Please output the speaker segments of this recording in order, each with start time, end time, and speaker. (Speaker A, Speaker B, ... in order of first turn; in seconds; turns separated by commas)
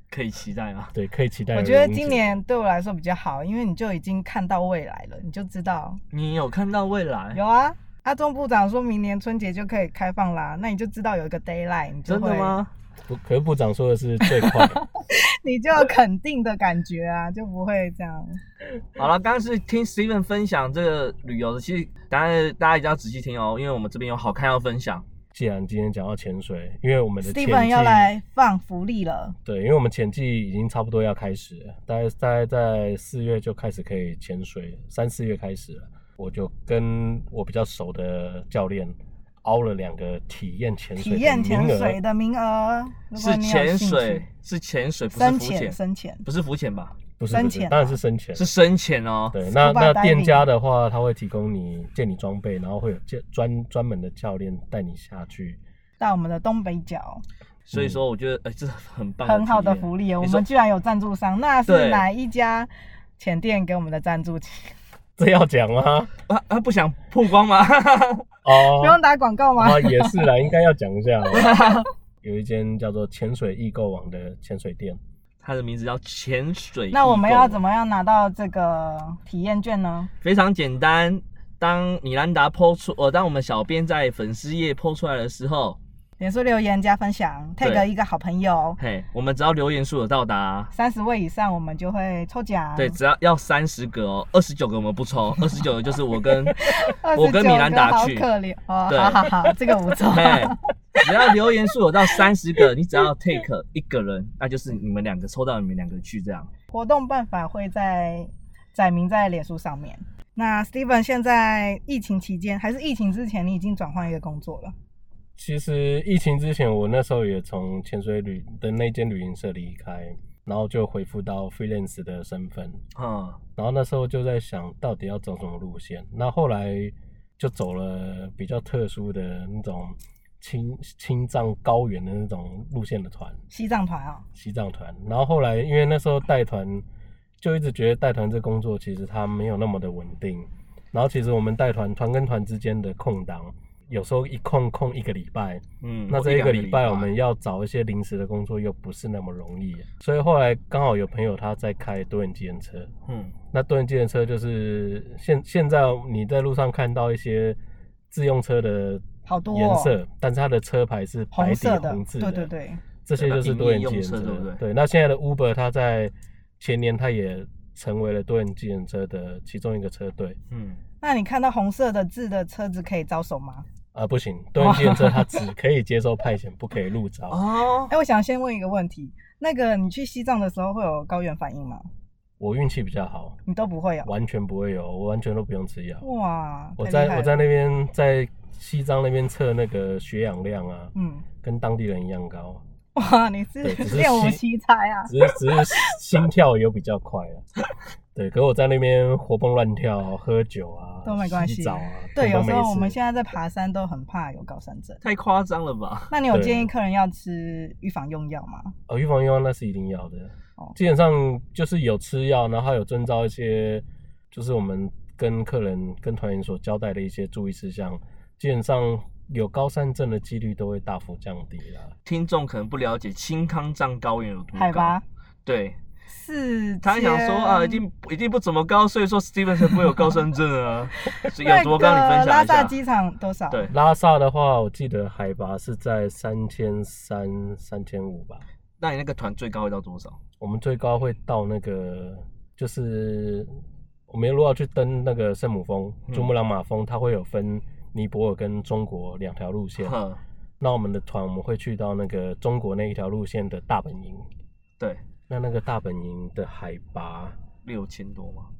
Speaker A: 0.1-0.9, Speaker B: 0.9-2.4, Speaker C: 1.5-6.0, Speaker A: 6.1-7.4, Speaker C: 7.3-12.6, Speaker A: 12.1-12.7, Speaker B: 13.1-14.8, Speaker C: 14.2-18.4, Speaker A: 19.0-25.1, Speaker B: 25.3-28.1, Speaker C: 27.2-29.4, Speaker B: 29.4-42.0, Speaker C: 41.0-44.3, Speaker A: 43.1-47.0, Speaker C: 45.1-46.2, Speaker B: 47.2-48.5, Speaker C: 47.3-48.0, Speaker A: 48.4-49.4, Speaker B: 49.3-55.6, Speaker C: 49.5-50.5, Speaker C: 56.0-57.2, Speaker A: 57.7-60.4, Speaker B: 57.7-58.0, Speaker C: 59.2-64.7, Speaker A: 61.7-62.1, Speaker B: 65.2-66.1, Speaker A: 66.3-68.3, Speaker B: 68.4-69.0, Speaker C: 68.6-70.3, Speaker B: 69.6-71.6, Speaker A: 71.3-71.9, Speaker B: 72.2-75.0, Speaker A: 75.4-77.6, Speaker C: 76.9-80.1, Speaker A: 80.2-85.8, Speaker C: 86.2-88.8, Speaker A: 87.6-87.9, Speaker A: 88.8-90.7, Speaker C: 90.7-93.0, Speaker A: 92.8-98.3, Speaker C: 96.5-101.1, Speaker A: 98.9-106.5, Speaker C: 106.7-114.7, Speaker B: 115.4-122.8, Speaker A: 123.0-123.4, Speaker B: 123.6-133.4, Speaker C: 133.5-134.2, Speaker B: 134.3-136.8, Speaker B: 137.4-152.9, Speaker A: 145.8-147.1, Speaker A: 153.1-153.3, Speaker B: 153.5-157.6, Speaker B: 158.1-162.5, Speaker C: 159.3-159.9, Speaker C: 161.3-162.8, Speaker B: 163.1-170.4, Speaker A: 163.2-164.6, Speaker A: 170.5-170.8, Speaker C: 171.0-173.7, Speaker B: 173.9-177.4, Speaker C: 174.6-175.5, Speaker A: 177.3-177.9, Speaker C: 177.9-181.9, Speaker B: 182.4-183.4, Speaker C: 183.5-184.1, Speaker B: 184.0-186.1, Speaker C: 186.0-187.4, Speaker B: 186.8-192.6, Speaker C: 190.9-191.3, Speaker C: 192.9-196.0, Speaker B: 193.6-194.4, Speaker B: 195.1-197.5, Speaker B: 198.2-203.0, Speaker C: 201.1-205.0, Speaker A: 205.0-206.2, Speaker C: 206.1-208.8, Speaker B: 206.3-206.7, Speaker B: 208.9-221.9, Speaker A: 222.1-225.8, Speaker C: 224.6-225.0, Speaker C: 226.1-227.8, Speaker A: 226.8-232.8, Speaker C: 231.1-233.7, Speaker B: 233.7-238.4, Speaker A: 238.8-240.2, Speaker B: 240.4-243.5, Speaker B: 244.1-250.0, Speaker A: 249.8-250.2, Speaker B: 250.6-254.3, Speaker B: 255.3-257.4, Speaker A: 257.6-258.5